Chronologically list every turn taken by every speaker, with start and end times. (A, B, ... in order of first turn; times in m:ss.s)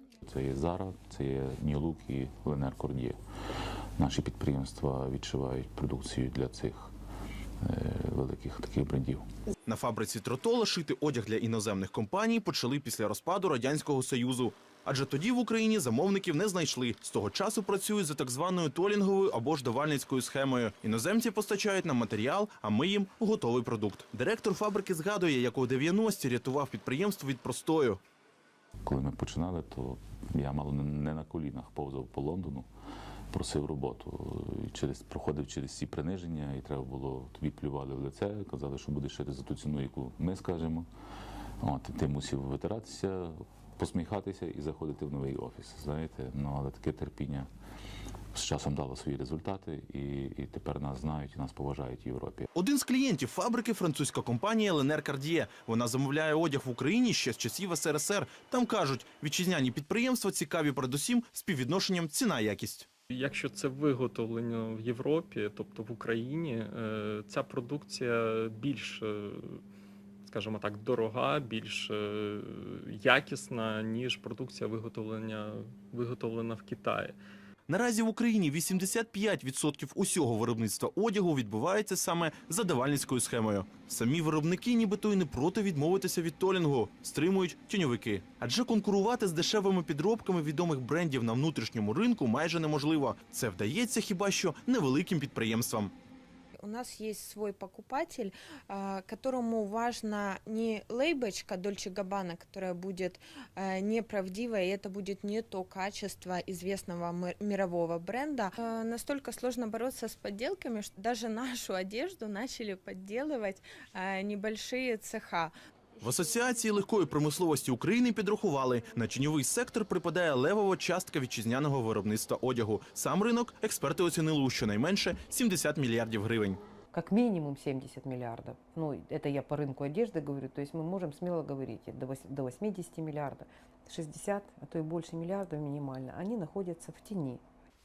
0:00.2-0:03.2 A
0:04.0-0:06.9 A
0:07.6-0:09.2 A
0:09.7-0:28.0 B
0:28.8-0:32.7 A
0:33.3-0:40.9 A
0:41.6-0:47.5 A
0:48.3-0:52.5 A
0:52.6-1:02.9 B
1:03.1-1:09.6 C
1:10.3-1:17.2 C
1:17.7-1:35.9 B
1:36.6-1:55.5 D
1:56.0-2:06.6 B
2:06.9-2:17.4 E